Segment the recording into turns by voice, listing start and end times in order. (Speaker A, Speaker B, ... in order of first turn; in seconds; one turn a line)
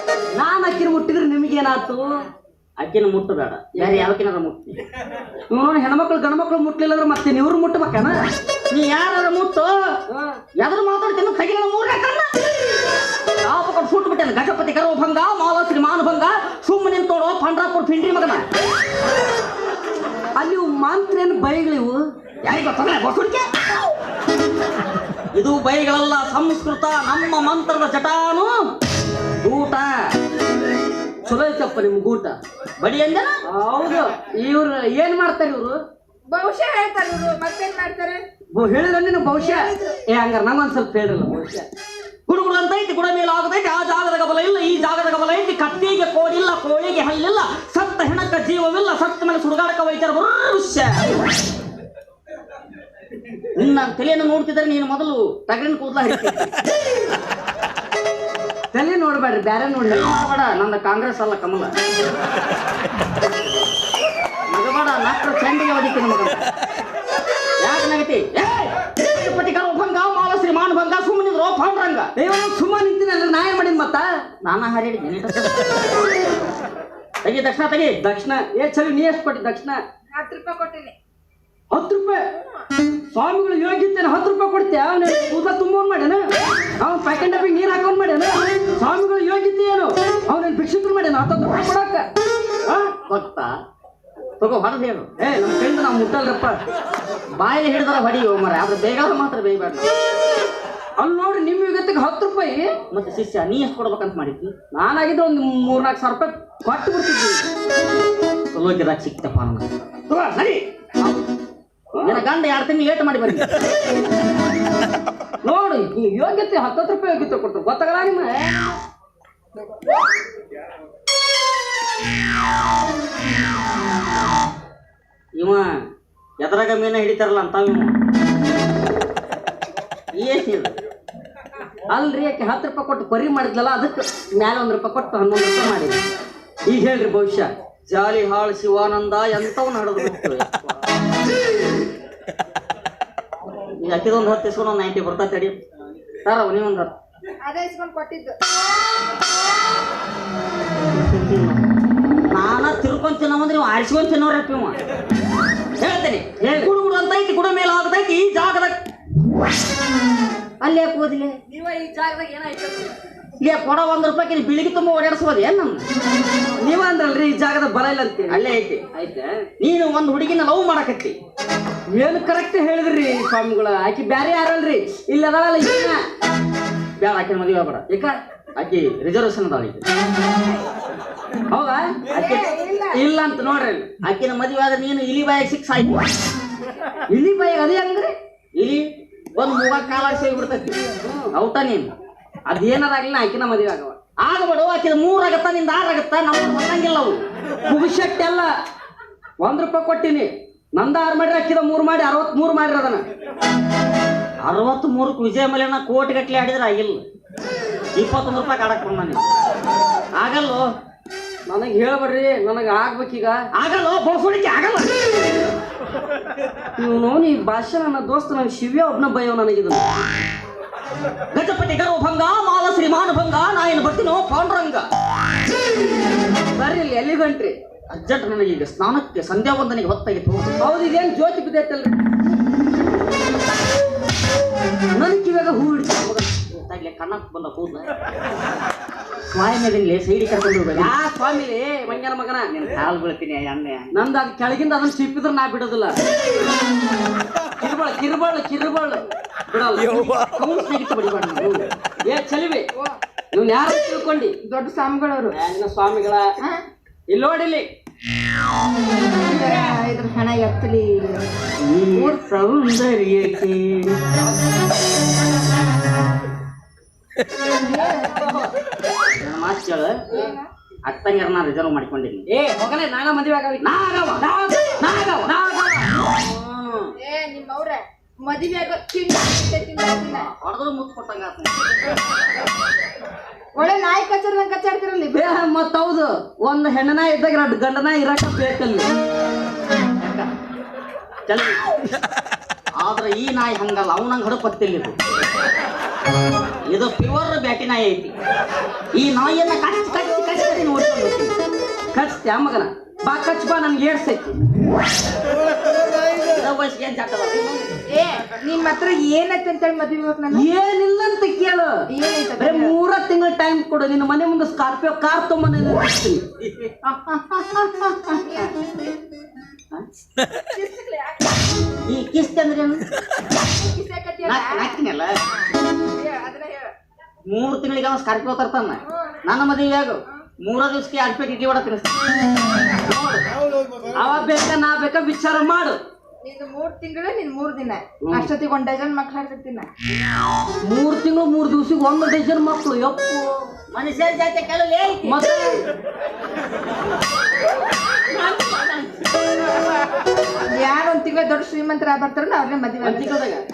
Speaker A: 0.3-2.3
Speaker B: 2.8-4.8
Speaker A: 3.8-4.1
Speaker A: 5.5-8.2
Speaker B: 8.7-10.0
Speaker A: 10.1-10.4
Speaker B: 10.6-12.3
Speaker B: 13.4-18.5
Speaker A: 20.4-22.0
Speaker B: 22.4-23.8
Speaker B: 25.3-28.7
Speaker B: 29.4-30.1
Speaker A: 31.3-32.4
Speaker B: 32.8-33.4
Speaker A: 33.5-35.8
Speaker C: 36.3-38.2
Speaker A: 38.5-41.7
Speaker C: 39.4-40.0
Speaker B: 42.3-51.1
Speaker B: 53.5-56.5
Speaker A: 58.7-60.1
Speaker B: 59.9-61.7
Speaker B: 64.5-66.4
Speaker B: 67.6-72.1
Speaker A: 72.2-74.1
Speaker B: 74.4-75.8
Speaker B: 77.2-78.0
Speaker A: 78.0-79.8
Speaker C: 80.1-81.0
Speaker A: 81.7-82.3
Speaker A: 83.1-86.3
Speaker A: 86.8-92.1
Speaker B: 92.9-93.5
Speaker B: 94.4-95.1
Speaker A: 95.2-96.6
Speaker B: 97.4-99.9
Speaker A: 101.0-102.7
Speaker B: 102.9-104.5
Speaker A: 104.7-107.5
Speaker B: 108.5-109.7
Speaker A: 110.1-111.2
Speaker A: 112.0-112.2
Speaker B: 112.0-113.5
Speaker A: 115.4-118.5
Speaker B: 125.4-125.8
Speaker B: 126.4-127.9
Speaker B: 130.1-130.8
Speaker A: 131.9-136.0
Speaker A: 136.7-137.5
Speaker B: 137.9-140.8
Speaker B: 143.8-145.6
Speaker B: 146.2-146.9
Speaker C: 147.4-148.4
Speaker B: 150.9-151.6
Speaker B: 152.3-154.8
Speaker B: 155.8-158.8
Speaker A: 156.4-156.7
Speaker B: 160.6-161.4
Speaker A: 161.5-163.0
Speaker B: 163.4-165.8
Speaker A: 166.6-169.5
Speaker B: 168.3-168.8
Speaker B: 169.6-171.2
Speaker A: 171.9-176.0
Speaker B: 177.0-177.8
Speaker A: 177.9-178.2
Speaker B: 178.6-179.8
Speaker A: 181.5-183.9
Speaker C: 182.1-183.0
Speaker B: 184.0-186.1
Speaker A: 187.1-188.1
Speaker B: 188.6-190.8
Speaker A: 191.0-191.3
Speaker B: 191.3-191.9
Speaker A: 192.5-194.0
Speaker B: 194.2-197.2
Speaker A: 197.7-198.5
Speaker A: 199.4-203.1
Speaker B: 204.4-207.0
Speaker B: 207.9-209.2
Speaker B: 210.2-210.7
Speaker A: 211.5-213.4
Speaker B: 213.5-214.9
Speaker A: 216.8-220.0
Speaker B: 221.3-224.9
Speaker A: 226.6-227.6
Speaker B: 227.9-230.6
Speaker A: 230.6-232.0
Speaker A: 234.9-236.3
Speaker B: 236.3-237.9
Speaker B: 239.3-240.9
Speaker A: 240.8-242.5
Speaker B: 242.5-243.9
Speaker A: 243.9-246.0
Speaker A: 247.6-250.2
Speaker B: 250.2-251.6
Speaker A: 251.4-252.7
Speaker A: 253.3-254.3
Speaker C: 254.4-255.4
Speaker A: 255.3-256.3
Speaker A: 257.1-257.7
Speaker C: 259.2-261.3
Speaker A: 259.3-259.8
Speaker B: 261.6-264.0
Speaker C: 267.6-268.2
Speaker A: 267.8-268.5
Speaker B: 269.2-270.1
Speaker C: 270.1-270.5
Speaker B: 270.9-272.2
Speaker A: 272.3-276.0
Speaker B: 273.6-274.2
Speaker B: 274.8-275.3
Speaker B: 276.0-276.9
Speaker C: 277.0-280.3
Speaker B: 280.1-281.8
Speaker C: 283.6-285.5
Speaker A: 285.1-288.9
Speaker B: 291.3-291.6
Speaker B: 292.8-294.9
Speaker B: 296.7-298.1
Speaker B: 298.9-301.4
Speaker A: 301.9-304.4
Speaker B: 306.2-307.8
Speaker C: 307.9-310.5
Speaker A: 310.3-311.7
Speaker C: 311.9-312.8
Speaker A: 312.4-316.2
Speaker B: 316.4-318.5
Speaker C: 318.2-318.9
Speaker C: 320.5-321.4
Speaker B: 321.9-322.8
Speaker C: 323.5-326.7
Speaker B: 324.2-325.2
Speaker B: 327.3-332.0
Speaker C: 328.9-329.2
Speaker A: 332.9-333.2
Speaker A: 333.9-335.8
Speaker C: 336.2-339.7
Speaker A: 338.1-338.3
Speaker A: 340.6-343.5
Speaker B: 343.7-345.2
Speaker A: 345.0-345.6
Speaker B: 348.2-348.8
Speaker C: 350.5-353.2
Speaker A: 352.8-353.4